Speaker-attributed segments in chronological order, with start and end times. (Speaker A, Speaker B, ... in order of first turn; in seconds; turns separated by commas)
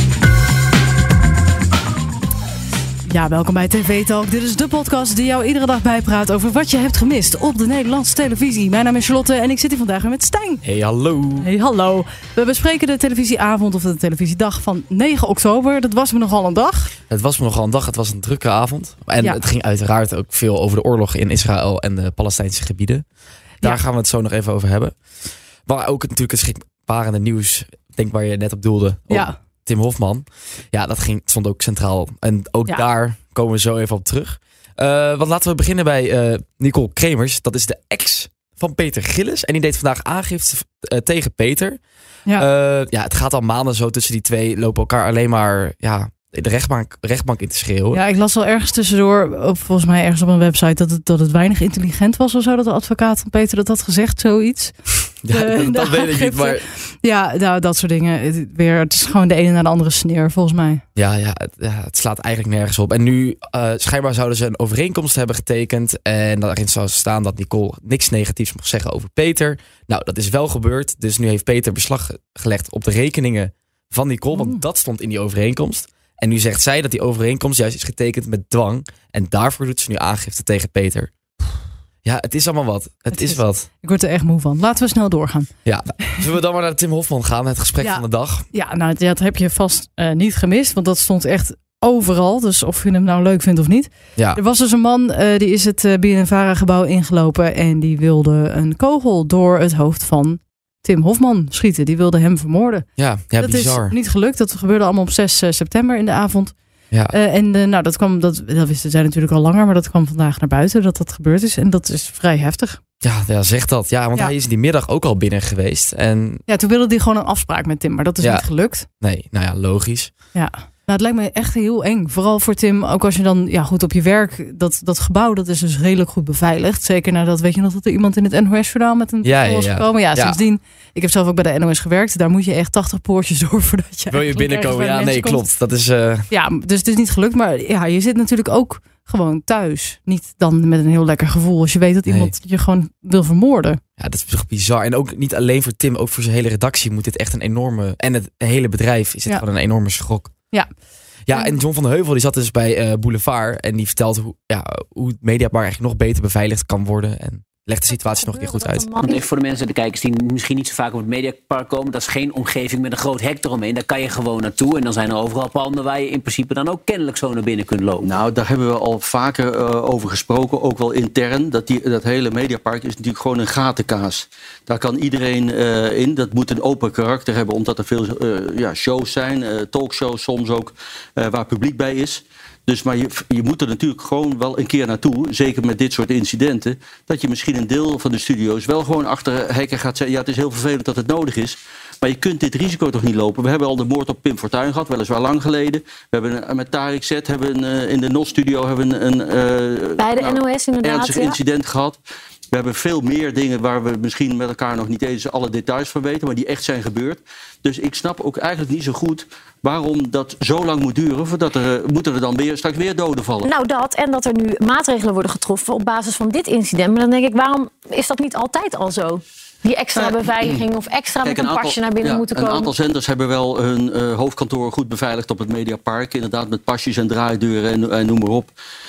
Speaker A: 3.0-10.6, Speaker B: 10.6-11.5, Speaker A: 11.4-16.9, Speaker B: 17.1-23.0, Speaker B: 23.6-24.9, Speaker B: 25.6-41.8, Speaker A: 29.1-29.4, Speaker B: 42.3-48.0, Speaker A: 47.9-60.8, Speaker B: 55.2-56.6, Speaker B: 61.0-83.7, Speaker A: 74.3-74.6, Speaker A: 83.1-85.5, Speaker B: 85.6-88.5, Speaker A: 87.8-102.9, Speaker B: 103.0-104.0, Speaker A: 103.4-106.5, Speaker A: 107.1-112.8, Speaker B: 113.0-116.4, Speaker A: 116.5-118.8, Speaker B: 118.2-118.5, Speaker B: 119.0-120.1, Speaker A: 120.3-135.4, Speaker B: 129.2-130.4, Speaker B: 134.1-136.3, Speaker A: 136.3-143.8, Speaker B: 142.1-142.3, Speaker B: 144.0-150.3, Speaker B: 151.3-158.9, Speaker A: 151.3-151.6, Speaker C: 157.9-159.2, Speaker D: 159.1-168.1, Speaker E: 168.0-202.0, Speaker C: 200.0-201.4, Speaker E: 202.5-213.5, Speaker C: 213.4-222.7, Speaker E: 220.0-220.6, Speaker E: 221.2-228.5